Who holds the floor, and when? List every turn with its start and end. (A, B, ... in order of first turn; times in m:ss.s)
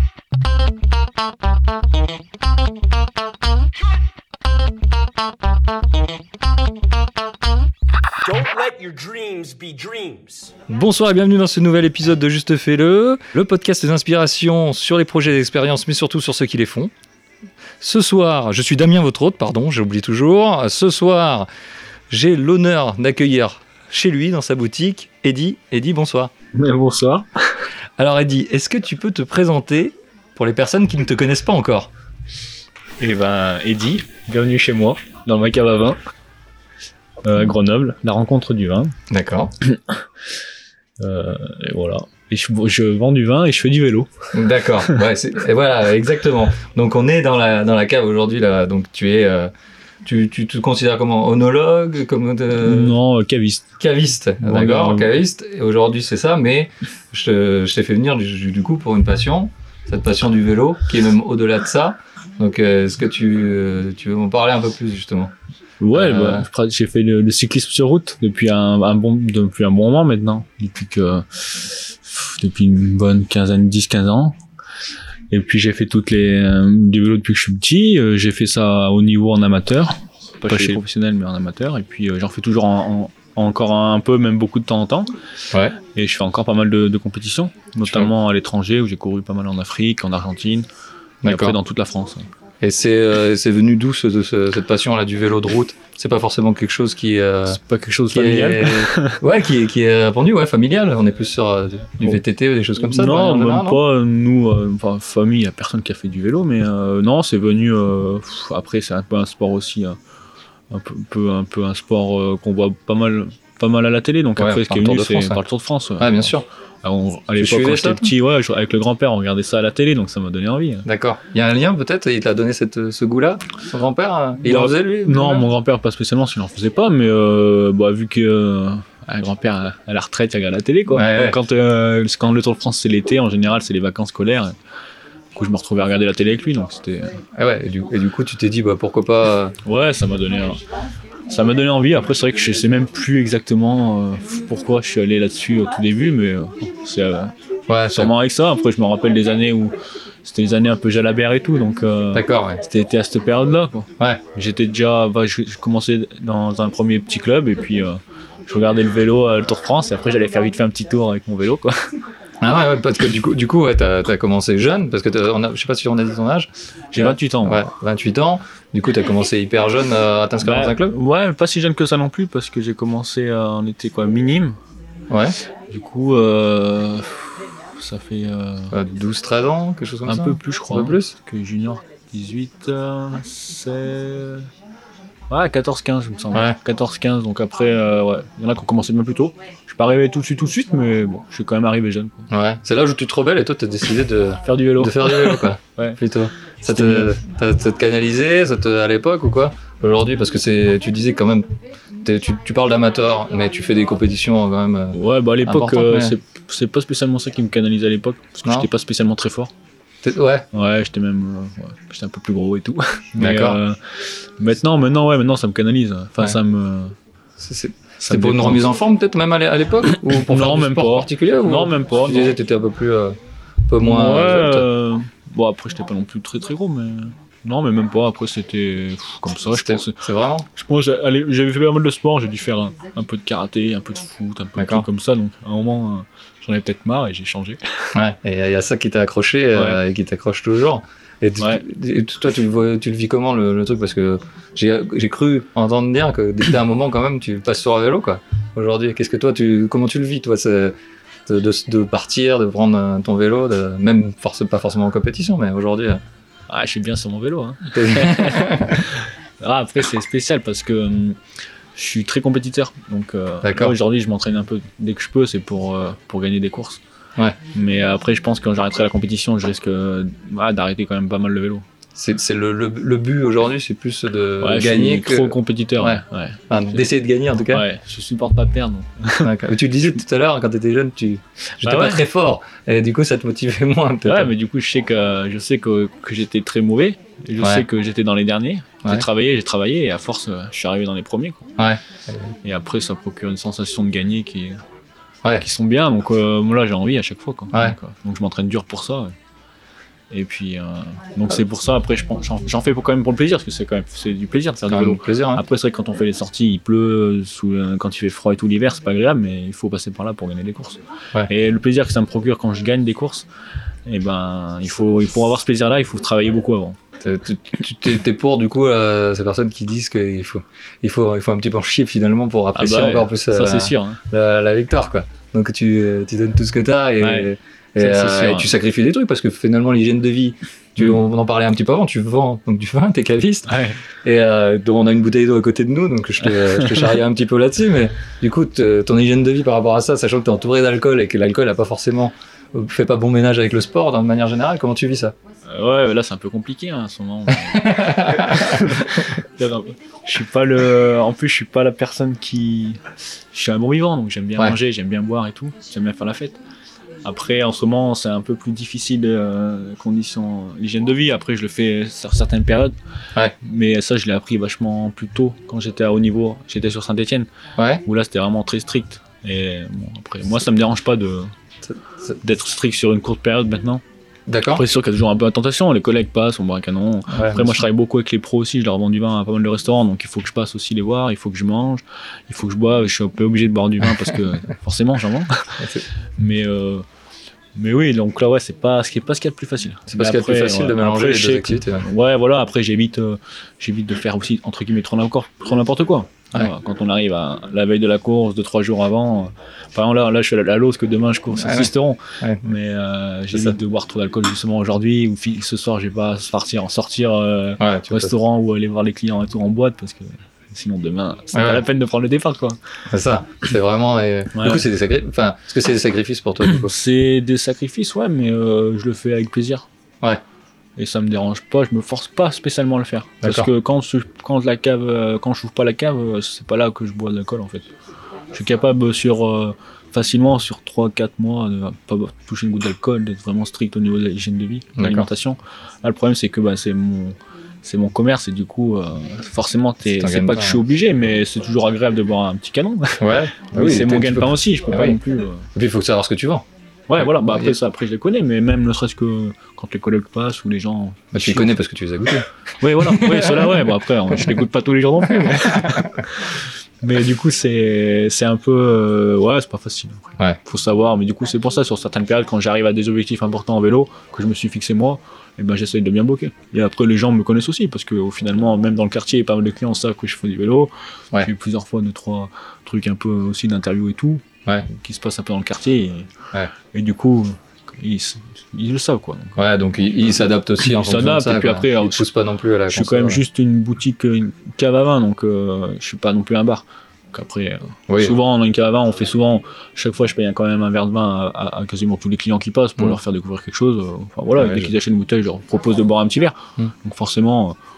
0:08.2-0:10.5 A
0:10.7-0:16.9 B
0:17.8-0:21.5 B
0:22.1-0:26.3 B
0:26.5-0:27.6 C
0:28.0-0:31.9 B
0:33.0-0:36.0 C
0:37.2-0:39.0 C
0:39.1-0:39.5 B
0:39.7-0:40.0 C
0:41.0-0:45.0 C
0:44.3-0:49.5 B
0:50.0-0:53.0 B
0:52.6-0:53.8 C
0:53.8-1:05.3 B
0:54.4-0:55.1 C
1:05.8-1:14.4 C
1:05.9-1:06.5 B
1:15.3-1:25.1 C
1:20.5-1:20.8 B
1:25.8-1:30.7 C
1:27.8-1:28.1 B
1:31.2-1:31.6 B
1:31.3-1:32.3 C
1:32.6-1:37.6 B
1:37.5-1:39.2 C
1:38.1-1:43.8 B
1:42.8-1:50.0 C
1:50.7-1:56.2 C
1:54.4-1:55.4 B
1:56.0-1:56.4 B
1:56.8-2:00.9 C
1:57.4-1:58.1 B
2:00.9-2:05.5 B
2:04.4-2:14.6 C
2:10.9-2:11.4 B
2:15.4-2:17.2 C
2:17.4-2:19.6 B
2:19.6-2:20.6 C
2:21.3-2:27.3 C
2:27.7-2:28.1 B
2:27.9-2:29.7 C
2:30.2-2:41.8 C
2:32.1-2:32.6 B
2:42.4-2:51.0 B
2:46.9-2:47.6 C
2:50.4-2:54.6 C
2:55.1-2:55.4 B
2:55.7-2:58.7 C
2:58.7-3:01.1 B
3:00.0-3:04.5 C
3:05.3-3:12.3 C
3:06.3-3:06.6 B
3:12.3-3:21.5 B
3:14.4-3:16.0 C
3:16.7-3:17.1 C
3:22.0-3:26.2 B
3:24.9-3:29.5 C
3:30.0-3:30.5 B
3:30.5-3:37.0 C
3:33.2-3:33.6 B
3:37.4-3:43.2 B
3:38.0-3:38.6 C
3:40.1-3:42.4 C
3:43.7-3:44.7 B
3:43.8-3:50.0 C
3:49.5-3:50.5 B
3:50.5-3:57.9 C
3:54.6-3:54.9 B
3:57.9-4:10.7 B
3:59.6-3:59.8 C
4:11.3-4:16.0 B
4:16.5-4:21.2 C
4:17.7-4:18.8 B
4:21.8-4:26.8 C
4:23.4-4:23.8 B
4:27.5-4:31.6 C
4:32.0-4:37.7 B
4:34.4-4:36.9 C
4:37.4-4:39.3 C
4:39.2-4:44.3 B
4:41.5-4:42.0 C
4:44.0-4:51.5 C
4:47.4-4:47.6 B
4:51.6-4:52.3 B
4:52.4-4:54.6 C
4:55.4-4:59.1 C
5:00.1-5:13.3 C
5:04.7-5:05.4 B
5:13.9-5:16.8 C
5:17.0-5:45.2 B
5:22.6-5:24.0 C
5:27.0-5:28.5 C
5:33.5-5:33.8 C
5:45.5-5:56.4 C
5:47.4-5:49.1 B
5:57.0-6:02.7 C
6:03.4-6:07.3 C
6:07.6-6:07.8 B
6:07.8-6:11.3 C
6:11.7-6:12.2 B
6:12.2-6:13.8 C
6:14.3-6:14.6 B
6:14.5-6:26.8 C
6:17.1-6:17.6 B
6:25.6-6:25.8 B
6:27.6-6:52.6 C
6:29.9-6:31.9 B
6:41.4-6:41.7 B
6:47.6-6:48.1 B
6:51.3-6:51.6 B
6:52.9-6:56.7 B
6:54.3-6:54.6 C
6:56.5-6:59.7 C
7:00.8-7:07.7 C
7:03.2-7:03.5 B
7:08.3-7:25.5 C
7:14.8-7:15.1 B
7:19.9-7:20.6 B
7:23.0-7:25.0 B
7:25.6-7:26.4 B
7:26.9-7:31.5 C
7:27.0-7:27.5 B
7:31.1-7:32.3 B
7:32.6-7:56.1 C
7:32.8-7:34.4 B
7:35.1-7:35.9 B
7:56.7-7:59.4 C
7:59.4-8:03.2 B
8:00.6-8:02.1 C
8:02.7-8:17.6 C
8:07.9-8:08.2 B
8:14.4-8:14.7 B